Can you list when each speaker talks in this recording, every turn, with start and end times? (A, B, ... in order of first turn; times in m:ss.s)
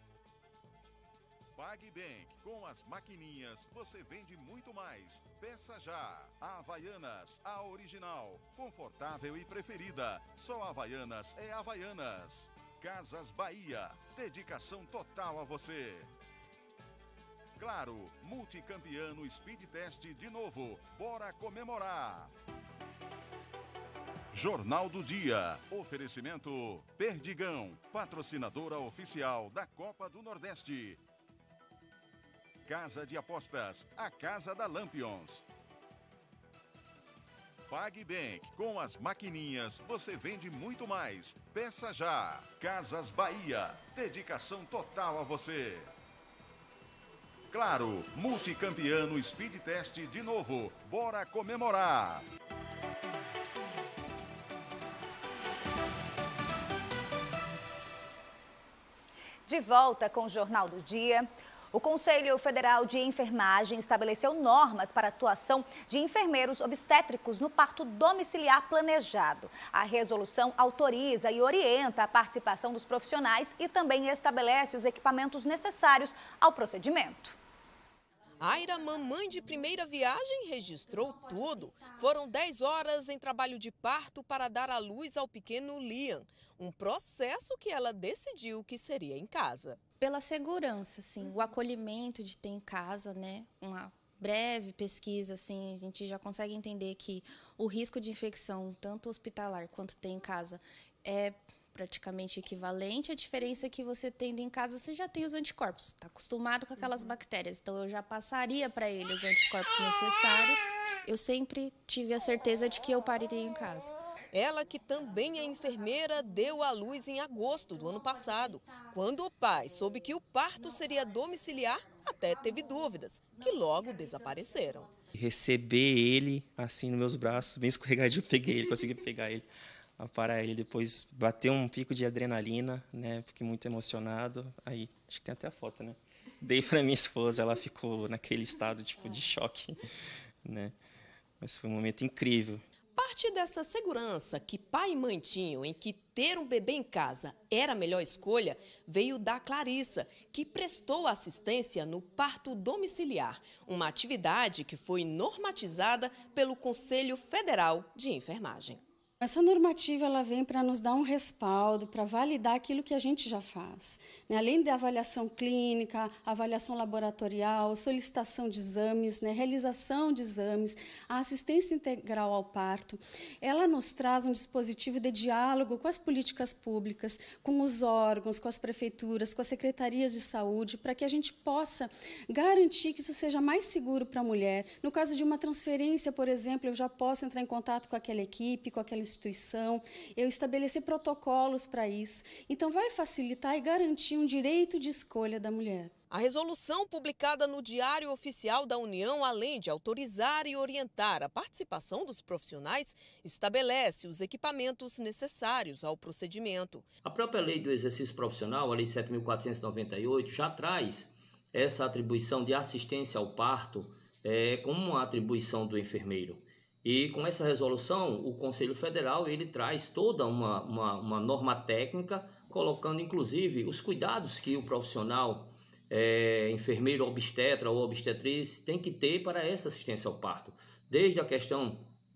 0:01.6-0:16.1 A
0:17.6-0:22.3 A
0:24.3-0:31.0 A
0:32.6-0:35.4 A
0:37.7-0:45.9 A
0:47.5-0:52.2 A
0:59.5-1:17.3 B
1:18.4-1:29.8 C
1:30.0-1:53.9 D
1:54.3-2:04.9 C
2:05.1-2:09.5 E
2:10.0-2:19.8 E
2:20.4-2:20.7 E
2:21.4-2:22.6 E
2:23.0-2:38.8 C
2:39.2-3:15.9 F
3:16.1-3:26.9 C
3:27.0-3:51.9 G